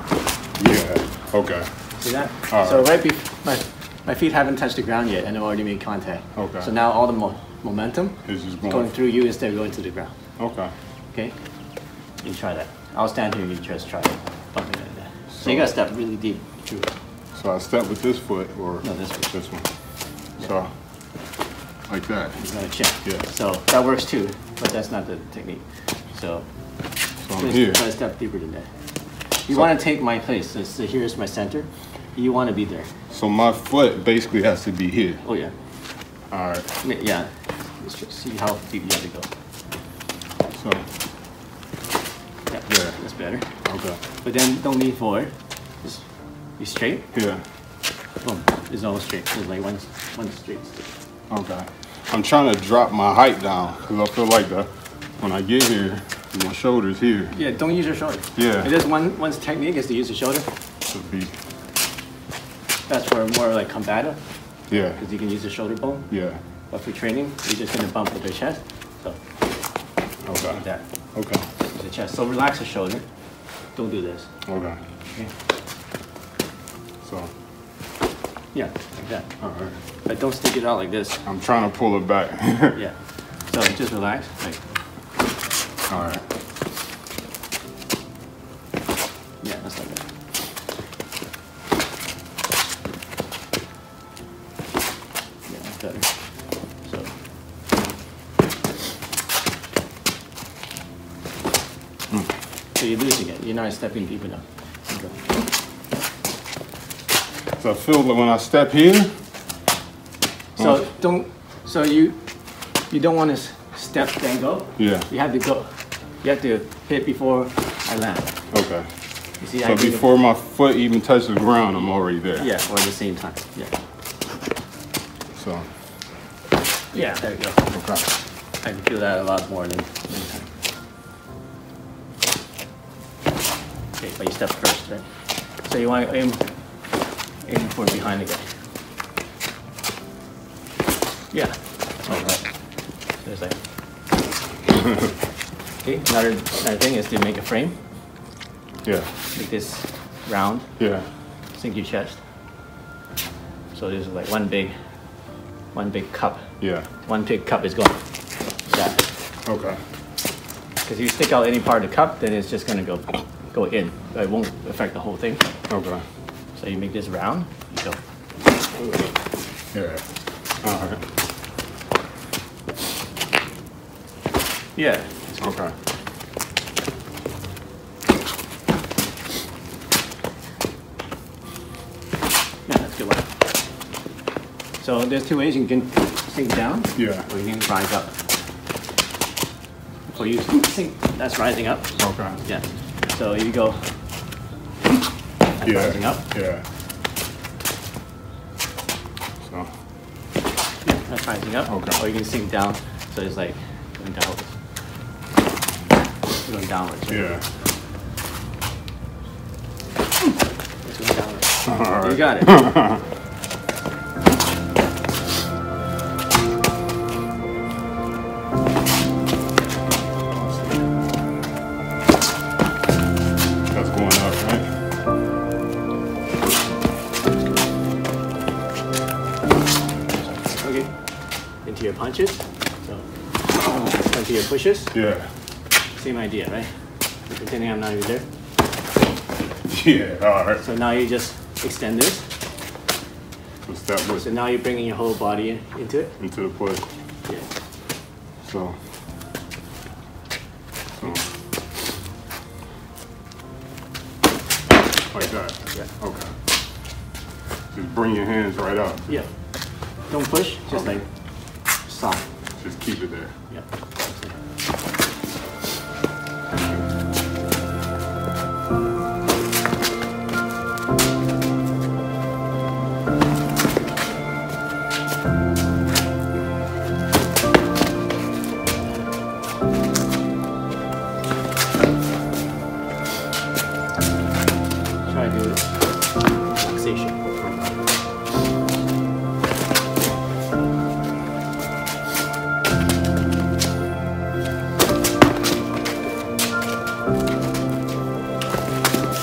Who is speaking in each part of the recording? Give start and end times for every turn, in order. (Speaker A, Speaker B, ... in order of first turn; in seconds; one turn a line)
Speaker A: 0.6-1.7
Speaker B: 2.0-10.2
Speaker A: 2.5-2.9
Speaker A: 6.4-6.7
Speaker A: 8.2-8.9
Speaker A: 10.4-10.7
Speaker B: 12.2-16.9
Speaker A: 15.3-15.7
Speaker A: 17.4-19.7
Speaker B: 18.8-19.3
Speaker A: 20.4-20.7
Speaker A: 21.9-22.4
Speaker B: 22.4-26.5
Speaker A: 27.2-27.8
Speaker B: 27.4-28.7
Speaker B: 29.4-32.9
Speaker A: 33.1-35.2
Speaker B: 35.2-35.5
Speaker A: 36.3-36.7
Speaker B: 36.8-39.3
Speaker A: 40.5-40.9
Speaker B: 42.5-43.5
Speaker A: 42.7-43.0
Speaker A: 43.6-44.0
Speaker B: 44.1-46.0
Speaker B: 46.6-47.1
Speaker A: 47.1-47.4
Speaker B: 48.2-50.9
Speaker A: 51.3-57.3
Speaker B: 57.3-60.5
Speaker A: 58.4-58.7
Speaker A: 60.9-61.3
Speaker B: 62.9-64.2
Speaker A: 64.7-65.0
Speaker B: 65.0-66.1
Speaker A: 66.1-66.4
Speaker B: 66.7-69.2
Speaker A: 70.3-70.6
Speaker B: 70.5-70.8
Speaker A: 71.2-71.5
Speaker B: 71.7-73.0
Speaker B: 73.7-74.3
Speaker A: 74.5-74.8
Speaker A: 77.0-77.3
Speaker B: 78.5-79.3
Speaker A: 79.4-79.8
Speaker B: 80.0-81.2
Speaker A: 81.3-82.8
Speaker B: 82.8-84.7
Speaker A: 85.9-86.2
Speaker B: 89.4-90.1
Speaker B: 95.5-97.2
Speaker B: 102.8-105.4
Speaker A: 107.6-109.2
Speaker B: 110.6-112.2
Speaker B: 112.9-118.3
Speaker A: 114.8-115.1
Speaker A: 118.5-122.5
Speaker B: 119.4-120.0
Speaker B: 122.4-123.8
Speaker A: 125.3-125.7
Speaker B: 126.9-127.7
Speaker A: 127.7-128.1
Speaker B: 128.6-130.5
Speaker B: 134.0-135.1
Speaker B: 135.6-136.4
Speaker B: 137.4-138.5
Speaker B: 141.3-142.5
Speaker A: 142.1-142.4
Speaker B: 143.2-143.6
Speaker B: 145.8-147.8
Speaker A: 148.8-149.1
Speaker B: 149.3-150.7
Speaker A: 150.8-151.1
Speaker B: 151.6-152.2
Speaker B: 153.7-154.8
Speaker B: 155.7-156.5
Speaker A: 156.6-156.9
Speaker B: 157.1-158.0
Speaker B: 158.7-159.1
Speaker A: 159.5-159.8
Speaker B: 160.8-165.4
Speaker A: 165.7-166.0
Speaker B: 166.6-168.0
Speaker A: 169.7-170.1
Speaker A: 170.6-171.0
Speaker B: 174.8-175.6
Speaker A: 175.4-175.7
Speaker B: 182.7-183.3
Speaker B: 184.8-188.1
Speaker A: 187.0-187.3
Speaker B: 190.1-193.9
Speaker A: 192.0-192.4
Speaker B: 195.6-196.2
Speaker A: 195.6-196.7
Speaker A: 199.4-199.7
Speaker B: 200.8-204.6
Speaker A: 201.7-202.0
Speaker B: 206.3-207.4
Speaker A: 207.1-207.5
Speaker B: 210.8-212.6
Speaker A: 211.7-213.0
Speaker A: 220.2-220.8
Speaker A: 223.7-224.8
Speaker B: 230.4-230.9
Speaker B: 231.6-234.9
Speaker A: 234.9-235.3
Speaker B: 235.9-238.3
Speaker A: 239.7-240.7
Speaker B: 240.6-242.3
Speaker A: 243.7-244.3
Speaker B: 244.1-246.2
Speaker A: 246.2-246.8
Speaker B: 247.3-247.5
Speaker A: 248.4-248.8
Speaker A: 251.0-251.2
Speaker A: 255.1-256.3
Speaker A: 257.7-259.1
Speaker B: 260.1-261.1
Speaker B: 261.6-262.2
Speaker A: 262.6-263.3
Speaker B: 263.5-264.4
Speaker A: 266.5-266.9
Speaker B: 285.1-287.2
Speaker A: 287.4-287.7